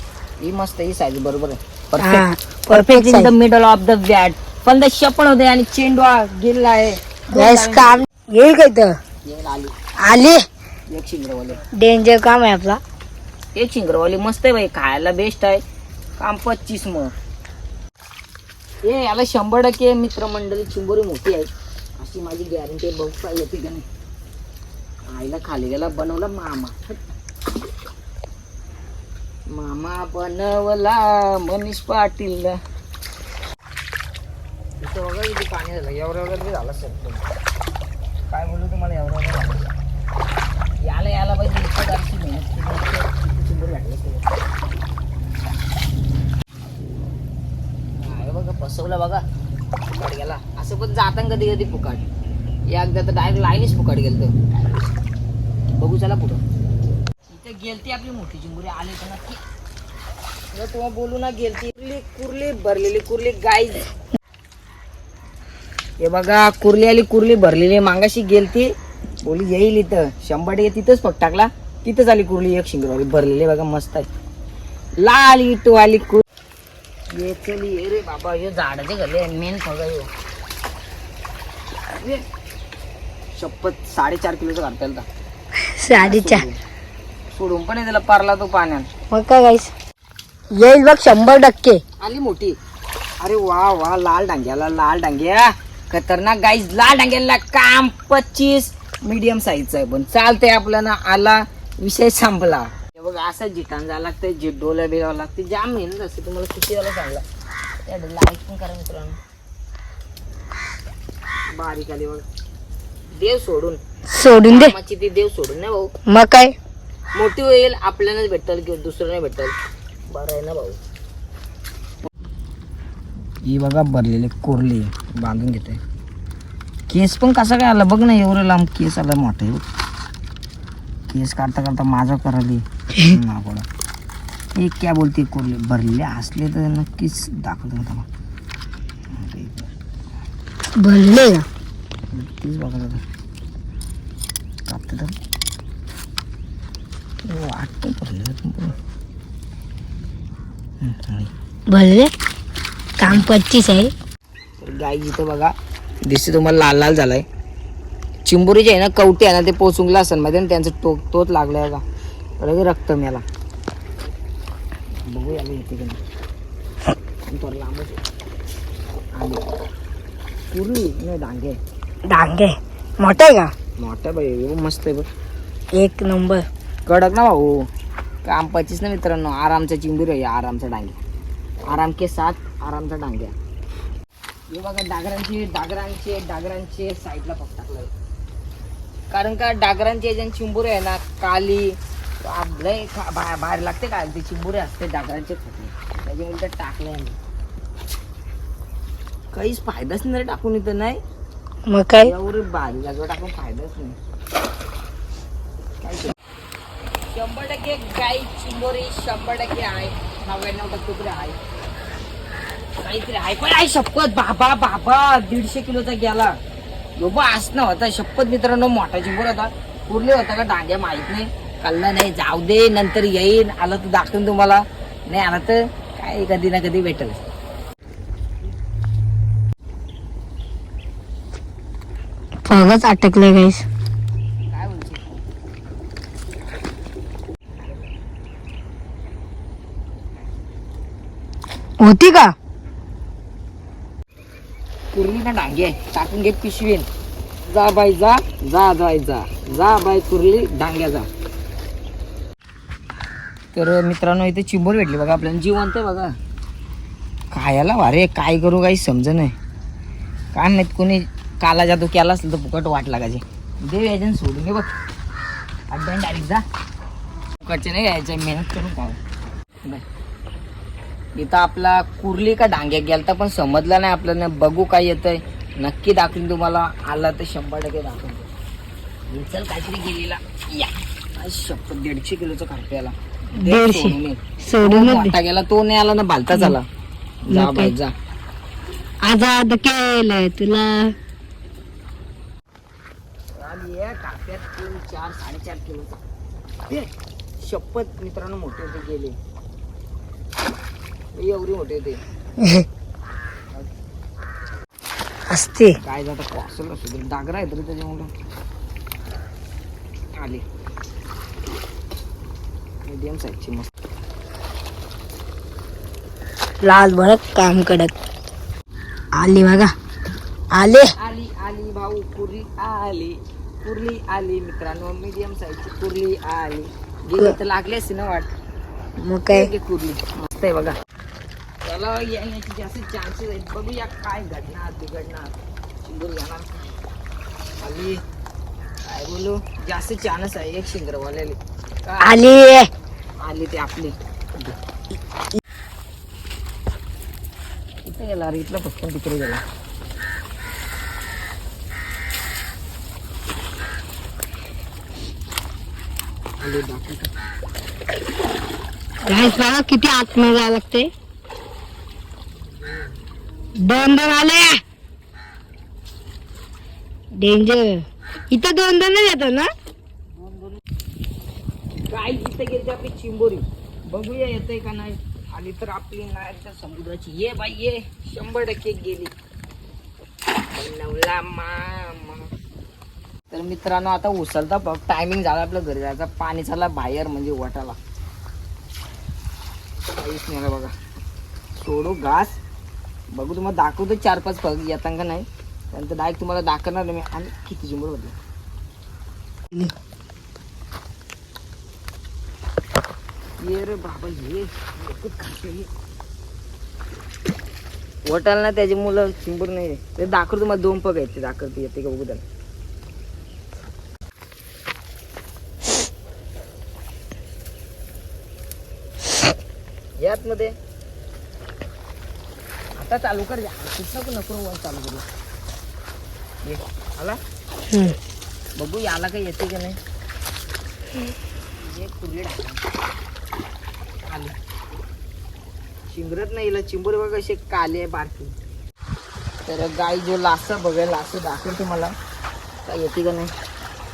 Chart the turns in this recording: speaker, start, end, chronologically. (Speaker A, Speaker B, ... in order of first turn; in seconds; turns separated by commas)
Speaker A: 0.4-8.0, Speaker B: 2.0-3.3, Speaker B: 7.3-8.9, Speaker A: 9.2-9.8, Speaker B: 10.1-10.4, Speaker A: 10.9-11.6, Speaker B: 11.8-12.8, Speaker A: 13.6-15.6, Speaker A: 16.2-17.1, Speaker A: 18.9-23.9, Speaker A: 25.1-27.0, Speaker A: 29.5-32.6, Speaker A: 34.8-37.3, Speaker A: 38.3-39.7, Speaker A: 40.9-44.3, Speaker A: 48.0-49.2, Speaker A: 49.9-52.0, Speaker A: 52.7-54.9, Speaker A: 55.8-56.4, Speaker A: 57.3-59.4, Speaker A: 60.5-63.9, Speaker A: 66.0-68.7, Speaker A: 69.2-74.1, Speaker A: 75.0-76.2, Speaker A: 77.1-80.1, Speaker A: 81.9-82.2, Speaker A: 83.3-85.1, Speaker B: 85.8-86.4, Speaker A: 85.9-86.6, Speaker A: 87.3-88.9, Speaker B: 89.1-89.7, Speaker B: 90.6-91.8, Speaker A: 92.0-92.6, Speaker A: 93.2-107.2, Speaker A: 107.9-109.2, Speaker A: 111.6-112.2, Speaker A: 113.2-113.8, Speaker B: 114.1-114.7, Speaker A: 114.5-115.9, Speaker B: 116.1-116.5, Speaker A: 117.2-119.5, Speaker A: 120.1-120.8, Speaker A: 123.4-125.8, Speaker A: 126.9-129.6, Speaker A: 131.1-133.7, Speaker A: 134.6-138.1, Speaker A: 139.1-139.7, Speaker B: 140.8-141.4, Speaker A: 142.1-143.0, Speaker A: 144.7-145.1, Speaker A: 147.3-148.7, Speaker A: 150.8-151.3, Speaker B: 151.7-152.1, Speaker B: 153.0-153.9, Speaker A: 154.6-155.5, Speaker A: 156.1-157.3, Speaker A: 158.2-161.8, Speaker A: 162.4-163.2, Speaker A: 165.0-166.0, Speaker A: 167.3-168.0, Speaker A: 169.2-169.5, Speaker A: 170.5-171.6, Speaker B: 172.1-173.5, Speaker A: 173.8-175.1, Speaker B: 175.8-176.4, Speaker A: 176.9-177.7, Speaker A: 178.2-181.0, Speaker A: 181.7-183.3, Speaker A: 184.5-187.9, Speaker A: 189.1-197.2, Speaker A: 199.3-201.0, Speaker B: 201.7-202.1, Speaker A: 202.0-204.0, Speaker A: 205.8-206.2, Speaker A: 207.1-211.4, Speaker A: 212.8-216.3, Speaker A: 217.0-227.3, Speaker B: 232.5-233.7, Speaker A: 234.5-235.2, Speaker B: 241.8-242.3, Speaker A: 244.9-246.9, Speaker A: 247.5-251.1, Speaker A: 253.5-256.1, Speaker A: 257.3-259.4, Speaker A: 260.3-264.7, Speaker A: 265.7-266.4, Speaker A: 267.4-269.0, Speaker A: 271.2-278.3, Speaker A: 279.1-286.6, Speaker B: 283.4-285.1, Speaker B: 286.3-286.6, Speaker A: 287.3-287.9, Speaker B: 287.3-287.7, Speaker B: 289.1-290.9, Speaker A: 293.4-296.0, Speaker A: 296.7-299.2, Speaker A: 301.1-302.0, Speaker B: 302.4-302.7, Speaker B: 305.3-305.8, Speaker A: 305.8-308.1, Speaker A: 310.2-310.4, Speaker A: 312.9-313.7, Speaker B: 316.6-317.9, Speaker B: 319.2-319.7, Speaker B: 320.6-320.9, Speaker A: 321.0-328.3, Speaker B: 329.0-329.5, Speaker A: 329.3-330.8, Speaker A: 331.6-336.7, Speaker A: 337.6-338.0, Speaker A: 338.9-342.2, Speaker B: 342.0-342.7, Speaker A: 343.2-344.6, Speaker A: 347.9-349.4, Speaker A: 356.4-357.1, Speaker B: 359.1-360.9, Speaker B: 363.6-364.6, Speaker B: 367.2-369.5, Speaker A: 370.1-370.6, Speaker A: 371.9-379.1, Speaker A: 380.5-382.3, Speaker A: 383.3-387.8, Speaker A: 389.9-390.7, Speaker A: 391.6-392.4, Speaker A: 393.1-398.2, Speaker A: 403.4-405.7, Speaker A: 408.1-412.2, Speaker A: 420.0-420.6, Speaker A: 422.8-425.1, Speaker A: 426.4-427.2, Speaker B: 427.7-428.0, Speaker A: 428.6-429.8, Speaker A: 431.6-432.6, Speaker A: 434.1-434.4, Speaker A: 435.9-438.4, Speaker A: 439.5-441.9, Speaker A: 442.7-443.3